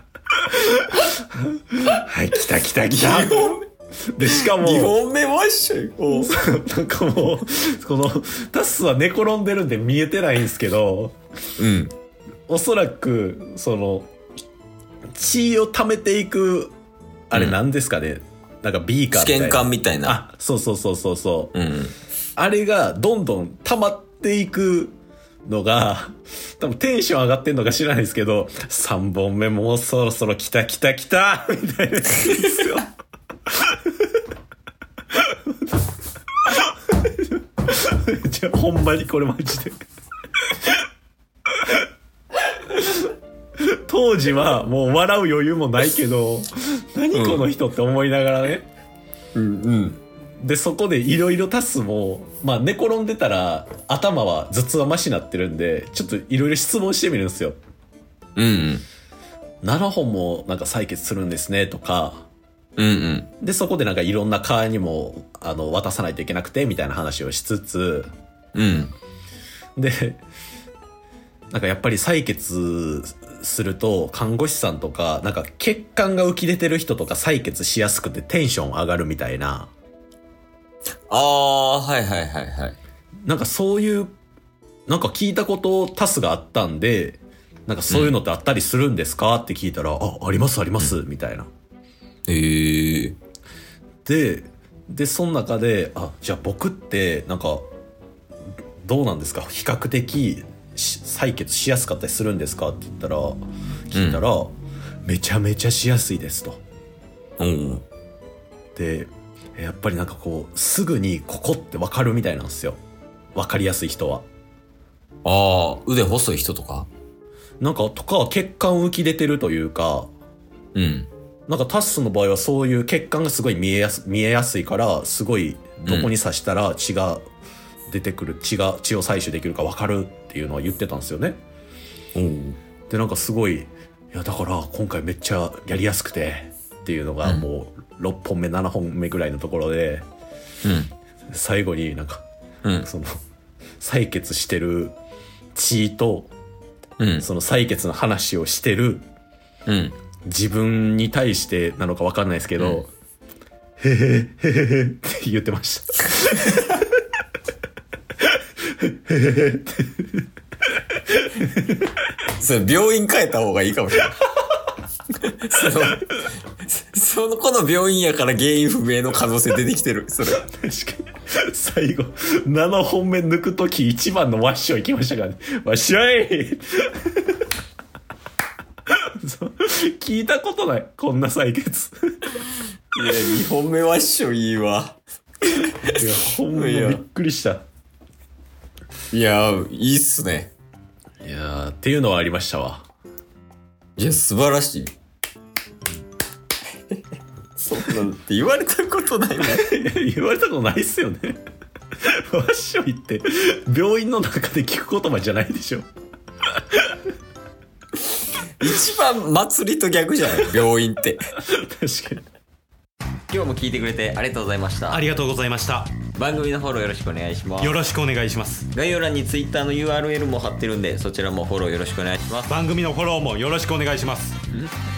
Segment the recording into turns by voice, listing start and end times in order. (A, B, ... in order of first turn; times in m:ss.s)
0:00.4-0:05.0 A
0:02.9-0:03.6 B
0:04.2-0:06.4 B
0:06.1-0:11.2 A
0:11.6-0:11.9 B
0:12.5-0:14.1 A
0:15.2-0:16.7 A
0:17.3-0:21.5 A
0:19.1-0:20.2 B
0:21.5-0:21.9 B
0:22.4-0:32.9 A
0:36.5-0:39.8 A
0:43.6-0:48.7 A
0:47.1-0:47.5 B
0:49.4-0:50.0 B
0:50.4-0:57.6 A
0:58.4-0:58.8 B
0:59.6-1:02.3 A
1:02.8-1:03.3 B
1:03.4-1:08.1 A
1:08.6-1:08.9 B
1:09.8-1:10.2 A
1:11.5-1:19.7 A
1:21.1-1:22.8 B
1:23.3-1:24.2 A
1:24.9-1:31.5 A
1:27.9-1:28.2 B
1:32.3-1:33.2 B
1:34.0-1:37.6 A
1:38.8-1:46.6 A
1:43.9-1:44.2 B
1:47.4-1:47.8 B
1:48.8-1:52.8 A
1:53.4-1:54.2 A
1:55.2-1:56.9 B
1:57.6-2:00.1 A
2:00.8-2:01.1 B
2:01.5-2:07.2 A
2:07.9-2:11.4 A
2:12.2-2:12.6 B
2:12.9-2:20.1 A
2:20.6-2:20.9 B
2:21.3-2:22.2 A
2:22.8-2:23.2 A
2:23.8-2:25.0 A
2:25.6-2:26.3 A
2:27.0-2:27.3 B
2:27.2-2:29.0 A
2:29.7-2:30.0 B
2:30.3-2:32.9 A
2:32.6-2:32.9 B
2:33.8-2:36.9 A
2:38.8-2:40.2 A
2:40.9-2:41.8 A
2:42.4-2:44.2 B
2:45.2-2:50.4 B
2:50.3-2:57.2 A
2:59.2-3:02.4 A
3:03.0-3:06.0 B
3:05.8-3:07.6 A
3:06.5-3:07.0 B
3:09.1-3:10.5 B
3:11.2-3:12.9 A
3:14.0-3:14.9 B
3:17.6-3:19.8 B
3:19.6-3:21.4 A
3:22.0-3:25.9 A
3:28.6-3:31.2 B
3:31.5-3:32.2 A
3:33.3-3:35.1 B
3:34.9-3:36.0 C
3:36.2-3:37.8 B
3:37.6-3:38.7 C
3:38.7-3:42.6 B
3:42.5-3:44.4 C